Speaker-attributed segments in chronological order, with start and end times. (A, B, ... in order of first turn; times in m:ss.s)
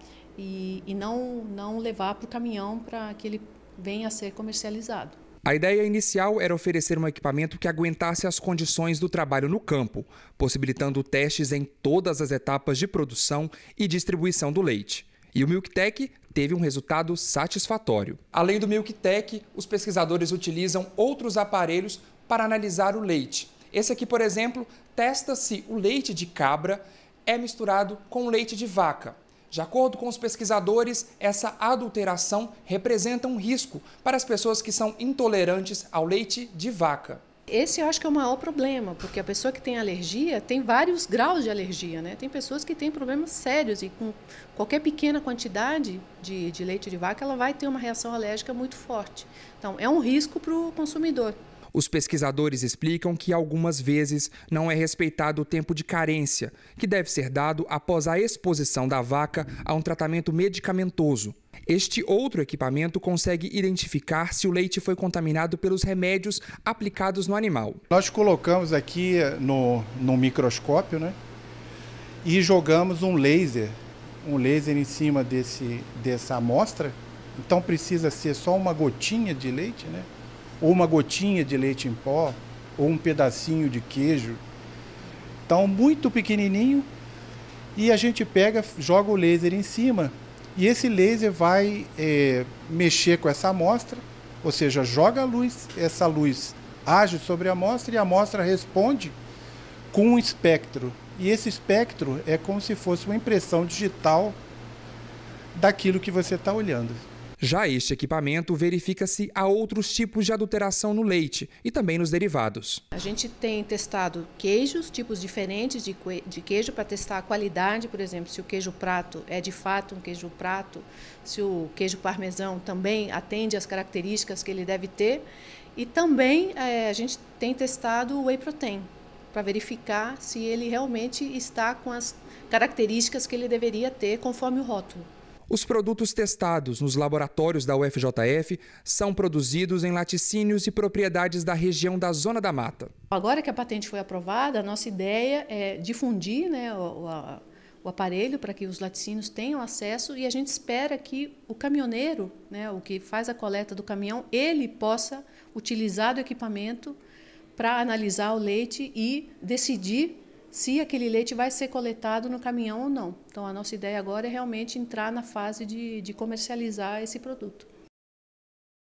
0:00.4-0:05.2 A
0:05.4-0:37.2 B
0:37.5-0:51.4 A
0:51.7-1:07.8 B
1:07.9-1:11.2 C
1:12.2-1:20.1 C
1:20.6-1:24.4 C
1:25.5-1:26.9 C
1:27.8-1:39.2 C
1:39.9-1:44.4 C
1:45.6-1:47.0 C
1:47.4-1:52.8 B
1:52.9-2:05.2 A
2:05.8-2:15.1 A
2:15.5-2:22.9 B
2:23.1-2:37.0 A
2:37.6-2:47.7 A